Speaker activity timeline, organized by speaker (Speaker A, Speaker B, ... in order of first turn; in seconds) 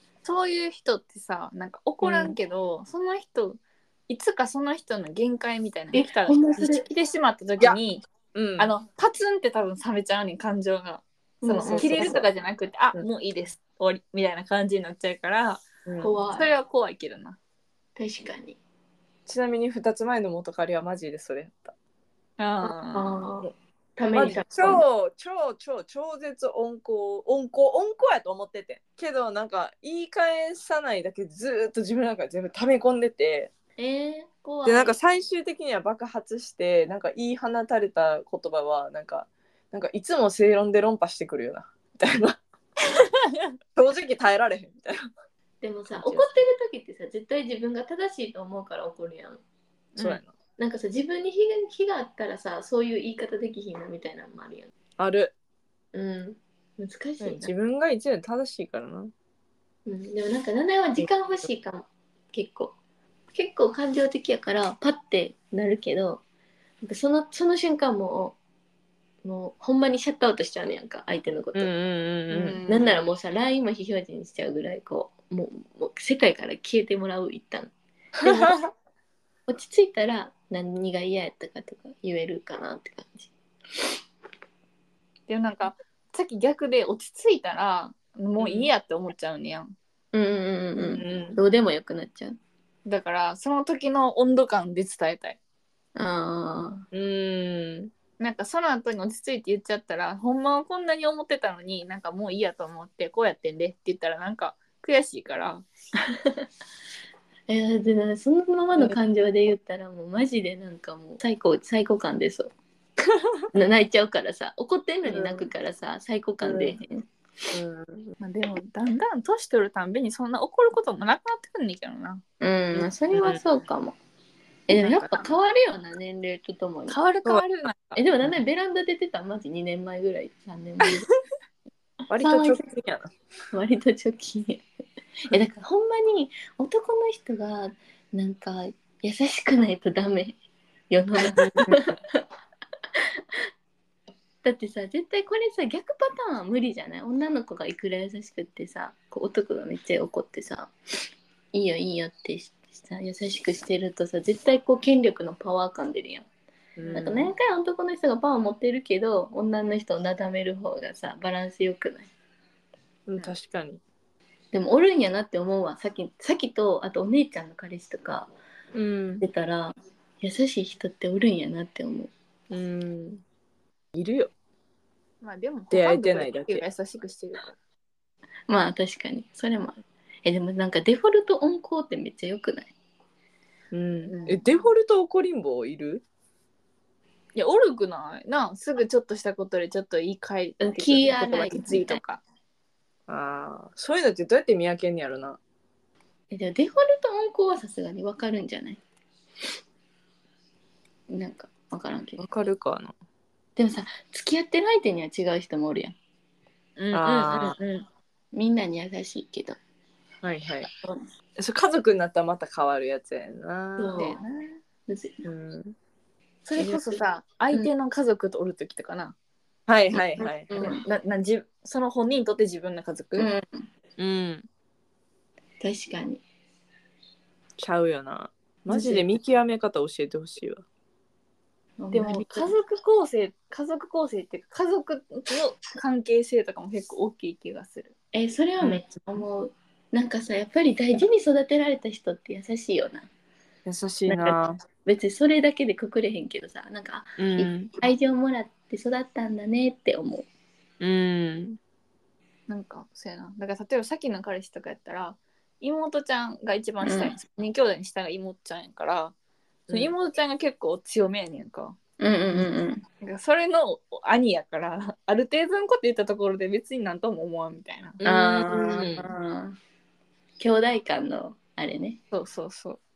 Speaker A: 0.2-8.0, 8.6-15.7, 16.3-17.4, 22.4-23.1, 43.0-43.6, 72.3-72.9, 85.3-89.8, 92.9-95.4, 98.2-105.7, 118.2-122.2, 126.9-128.0, 175.2-177.6, 184.1-184.4, 187.3-192.2, 206.8-207.8, 214.0-214.6, 216.4-219.2, 220.6-223.3, 231.9-237.9, 252.5-259.1, 259.7-261.8, 263.0-268.0, 272.1-272.8
Speaker B: 2.0-2.4, 8.3-8.7, 11.7-12.3, 15.9-16.1, 19.3-21.7, 24.1-33.5, 34.6-42.4, 43.8-45.1, 45.9-46.3, 50.0-50.3, 55.0-55.3, 57.2-59.1, 71.5-72.6, 78.3-78.5, 88.4-88.7, 90.8-91.4, 96.9-97.9, 115.1-115.5, 116.4-116.8, 117.5-118.1, 123.1-123.4, 132.1-133.1, 141.3-141.9, 156.8-157.3, 163.1-163.8, 168.7-169.2, 172.5-173.2, 173.9-174.3, 175.7-176.6, 183.7-186.0, 193.1-195.4, 202.2-202.9, 206.9-207.6, 210.2-210.7, 211.4-214.1, 215.2-215.8, 219.7-220.5, 224.0-224.5, 227.6-230.6, 243.7-244.6, 247.2-247.7, 250.8-251.6, 259.7-259.9, 268.0-269.1
Speaker C: 5.9-6.8, 11.4-12.2, 16.0-16.5, 18.0-18.6, 22.9-24.8, 33.8-35.0, 45.6-49.4, 50.6-54.7, 55.9-57.5, 59.9-62.8, 63.3-66.2, 66.8-68.4, 69.2-71.7, 72.7-77.7, 79.5-83.3, 90.1-92.4, 96.0-96.8, 107.5-112.5, 113.5-117.0, 122.4-124.0, 124.7-127.0, 128.0-131.1, 132.1-132.6, 133.5-134.6, 135.3-140.4, 140.9-142.2, 144.4-150.7, 151.5-156.3, 156.9-162.1, 164.5-168.3, 169.2-172.1, 178.5-182.7, 190.6-192.0, 196.3-198.8, 201.1-202.2, 203.6-206.0, 208.3-209.6, 213.8-214.2, 214.9-215.2, 216.7-216.9, 220.2-220.8, 223.2-223.7, 225.6-226.2, 228.7-229.1, 231.8-232.5, 238.1-243.1, 244.1-250.3, 256.8-257.1, 262.0-262.8, 268.0-269.6, 270.4-272.0